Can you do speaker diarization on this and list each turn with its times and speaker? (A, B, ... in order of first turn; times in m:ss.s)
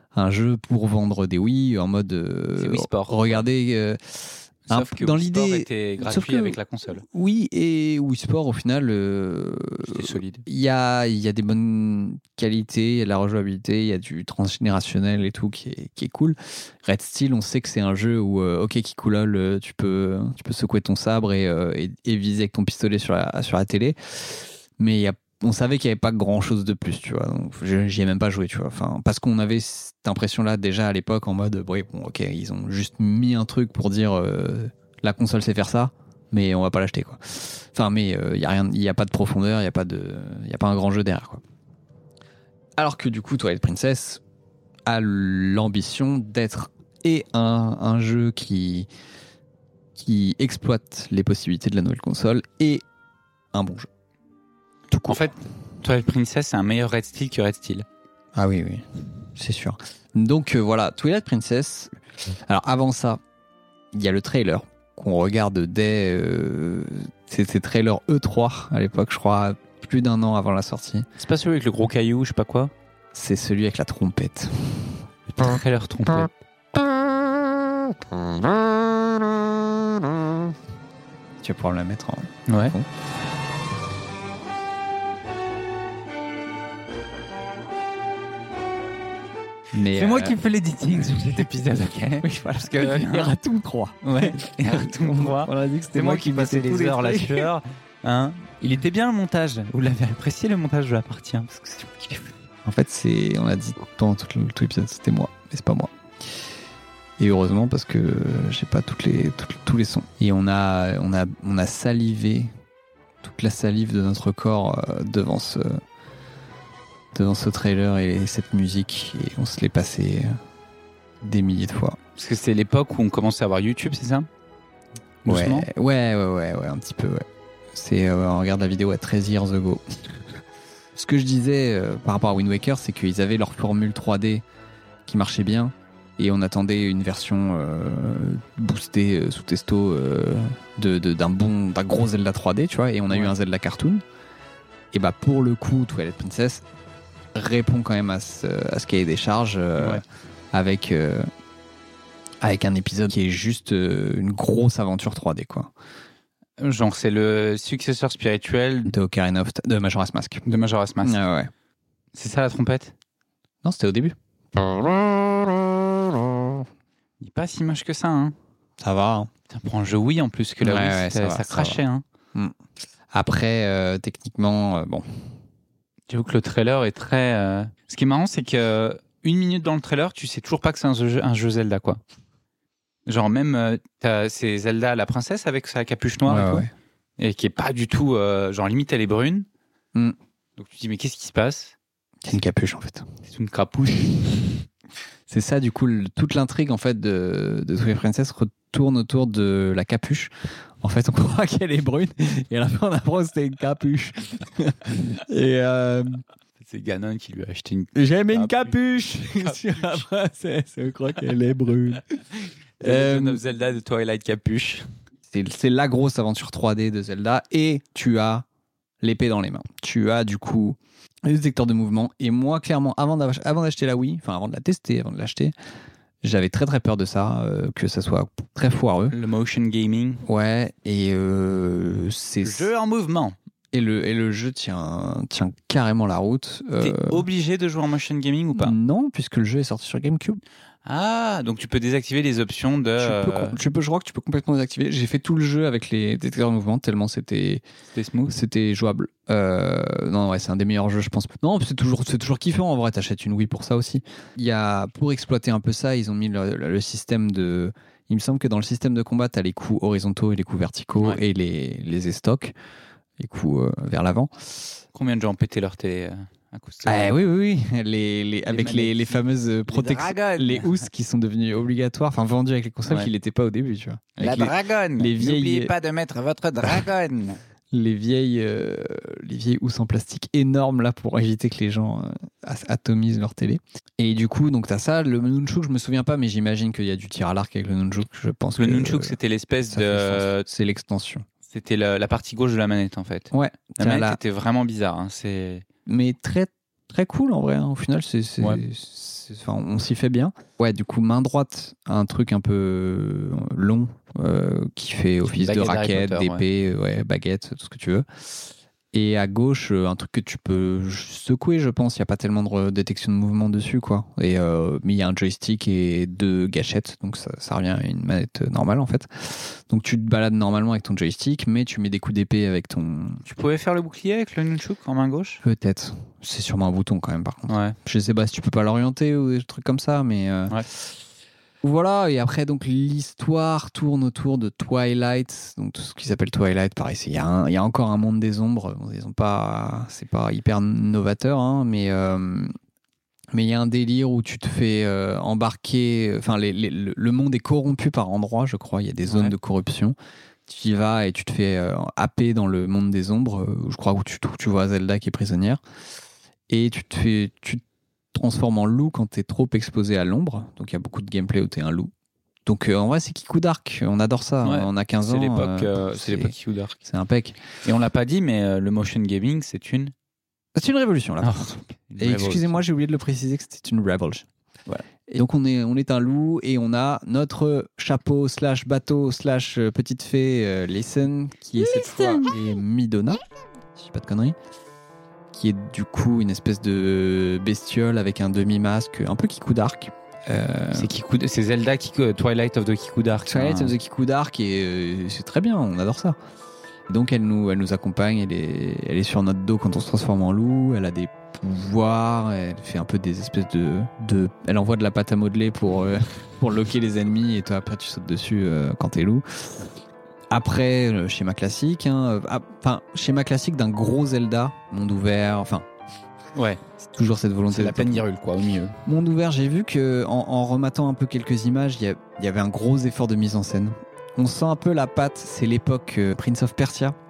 0:00.1-0:41.4 A
0:02.6-0:03.5 B
0:04.7-0:07.0 B
0:09.9-0:10.4 B
0:42.8-0:44.2 A
0:44.8-0:48.9 A
0:50.0-0:52.8 A
0:53.5-0:53.9 A
0:54.9-0:55.3 A
0:55.1-0:57.8 B
0:58.3-1:03.2 A
1:03.9-1:11.1 A
1:11.2-1:12.7 B
1:13.1-1:15.0 A
1:15.3-1:16.3 B
1:21.4-1:22.9 A
1:22.5-1:22.8 B
1:29.7-1:30.4 A
1:29.8-1:33.3 B
1:32.2-1:37.5 A
1:34.0-1:42.3 B
1:42.6-1:45.9 A
1:47.2-1:52.5 A
1:53.2-1:55.8 A
1:57.1-2:00.4 A
2:01.2-2:02.0 A
2:02.2-2:04.3 B
2:05.2-2:05.7 B
2:05.2-2:10.4 A
2:10.9-2:14.4 A
2:15.0-2:24.0 A
2:24.9-2:26.6 A
2:27.3-2:31.3 A
2:29.8-2:30.0 B
2:32.4-2:35.7 A
2:36.6-2:38.9 B
2:38.9-2:40.4 A
2:40.4-2:41.2 B
2:41.0-2:41.5 A
2:42.1-2:42.9 B
2:43.6-2:46.6 A
2:47.2-2:48.3 B
2:48.8-2:49.3 A
2:49.5-2:52.0 B
2:50.6-2:51.8 A
2:53.1-2:55.2 A
2:56.1-3:02.0 B
3:03.0-3:06.6 B
3:06.2-3:06.7 A
3:07.2-3:09.4 B
3:10.6-3:11.7 B
3:12.2-3:13.0 A
3:13.2-3:14.6 B
3:15.3-3:26.2 A
3:26.6-3:30.0 B
3:27.9-3:32.0 A
3:32.8-3:33.4 A
3:32.8-3:34.9 B
3:35.3-3:38.4 A
3:39.0-3:45.5 A
3:46.2-3:49.2 A
3:49.1-3:50.2 B
3:50.2-3:52.7 A
3:52.4-3:53.4 B
3:53.7-3:57.2 A
3:56.8-3:58.7 B
3:58.5-4:00.4 A
4:00.8-4:03.6 B
4:03.0-4:07.6 A
4:07.9-4:08.4 B
4:08.3-4:22.5 A
4:23.2-4:24.7 A
4:24.9-4:27.3 B
4:26.8-4:35.7 A
4:28.4-4:30.8 B
4:34.2-4:37.4 B
4:37.7-4:49.2 A
4:48.6-4:50.4 B
4:49.7-4:51.2 A
4:51.4-4:55.6 B
4:53.3-4:54.2 A
4:55.8-5:08.0 A
4:58.4-4:58.6 B
5:05.2-5:06.4 B
5:08.9-5:23.2 A
5:23.2-5:25.4 B
5:25.4-5:31.0 A
5:27.5-5:27.8 B
5:31.6-5:42.5 A
5:43.3-5:50.0 A
5:49.1-5:49.3 B
5:50.5-5:55.6 A
5:56.5-5:57.6 A
5:58.1-6:01.9 A
6:02.4-6:07.4 A
6:04.4-6:06.8 B
6:07.6-6:09.9 B
6:10.5-6:14.2 A
6:11.2-6:12.6 B
6:15.1-6:23.2 A
6:23.8-6:24.4 A
6:25.3-6:30.9 A
6:30.7-6:33.7 B
6:33.2-6:36.2 A
6:36.9-6:49.7 A
6:50.3-6:55.6 A
6:56.3-6:56.6 B
6:56.8-6:58.0 A
6:57.5-6:58.8 B
6:58.8-7:07.0 A